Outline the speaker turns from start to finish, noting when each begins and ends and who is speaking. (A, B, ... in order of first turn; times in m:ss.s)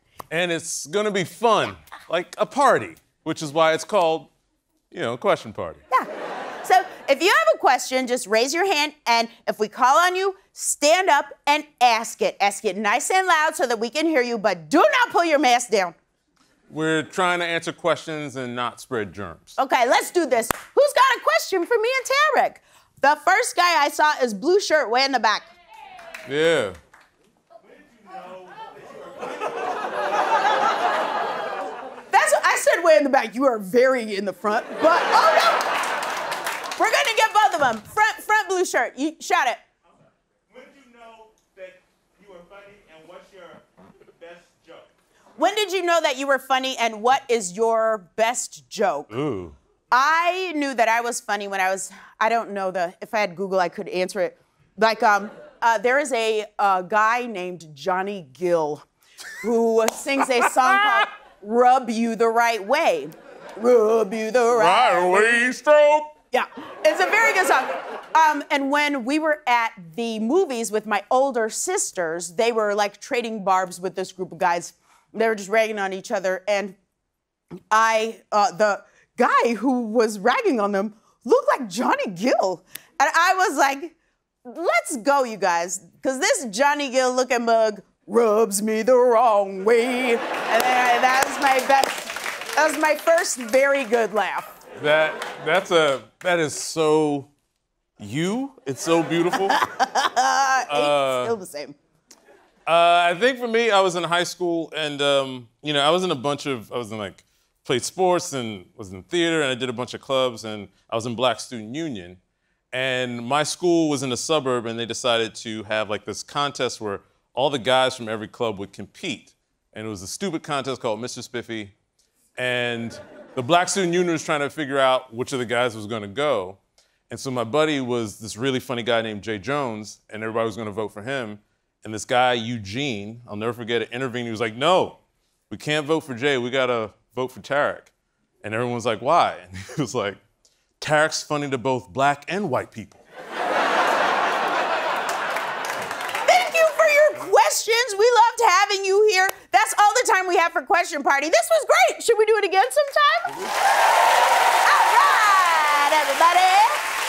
0:00.3-0:04.3 A
0:04.9-0:05.8 A
0:06.6-0:16.0 B
0:16.7-0:19.6 A
0:19.6-0:25.5 B
0:26.3-0:26.8 A
0:28.1-0:29.3 C
0:32.1-0:35.8 B
0:36.8-0:39.6 B
0:40.5-0:43.6 C
0:44.2-0:44.9 C
0:45.4-0:49.2 B
0:49.1-0:49.6 A
0:49.9-0:58.8 B
0:59.4-1:05.5 B
1:04.5-1:06.1 A
1:06.3-1:16.8 B
1:17.7-1:34.5 B
1:34.8-1:37.3 A
1:38.0-1:39.6 A
1:39.4-1:41.8 B
1:40.7-1:41.4 A
1:42.7-1:52.2 A
1:52.7-2:01.7 A
2:02.4-2:17.9 A
2:18.4-2:20.2 A
2:20.8-2:23.0 A
2:26.3-2:33.4 B
2:34.6-2:36.8 B